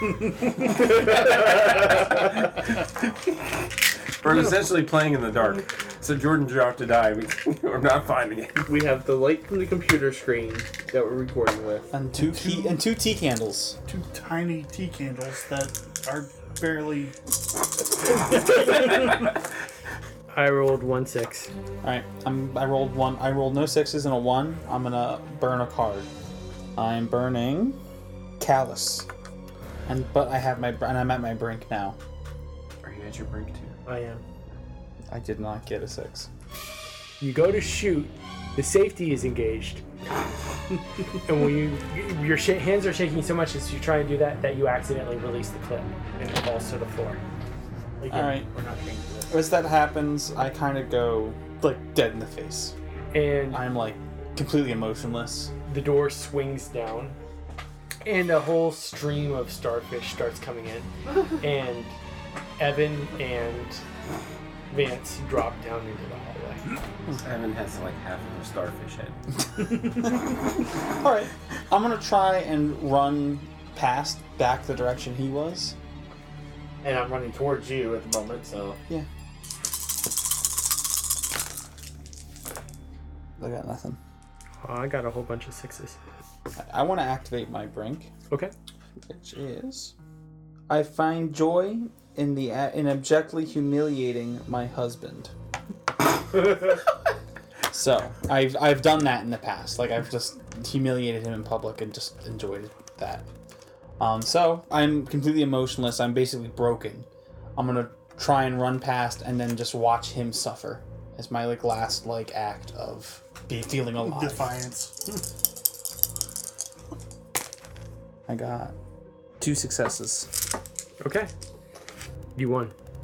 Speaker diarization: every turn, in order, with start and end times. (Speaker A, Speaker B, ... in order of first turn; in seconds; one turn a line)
Speaker A: 0.2-8.7
Speaker B: 8.7-11.9
Speaker C: 11.9-13.8
Speaker D: 12.2-12.8
Speaker D: 13.9-17.1
Speaker E: 20.3-21.5
Speaker C: 21.8-26.1
Speaker C: 26.8-27.8
Speaker C: 28.4-29.1
Speaker C: 29.9-32.0
Speaker A: 32.8-33.8
Speaker B: 33.9-34.2
Speaker C: 35.1-36.3
Speaker E: 37.2-39.8
Speaker E: 41.2-47.2
Speaker B: 48.0-49.7
Speaker C: 48.1-48.5
Speaker C: 49.3-52.8
Speaker E: 53.1-53.6
Speaker C: 53.5-55.5
Speaker E: 55.7-57.2
Speaker E: 58.0-62.0
Speaker E: 62.6-63.8
Speaker E: 64.7-66.7
Speaker A: 67.2-69.2
Speaker C: 70.9-75.8
Speaker B: 76.8-78.8
Speaker C: 83.4-84.0
Speaker E: 84.6-86.0
Speaker C: 86.6-88.1
Speaker C: 89.1-90.0
Speaker C: 90.7-95.3
Speaker C: 96.3-96.8
Speaker C: 97.7-103.3
Speaker C: 104.0-114.5
Speaker D: 114.0-115.2
Speaker C: 118.3-118.7
Speaker C: 119.4-120.3
Speaker E: 121.0-121.3
Speaker E: 122.4-122.8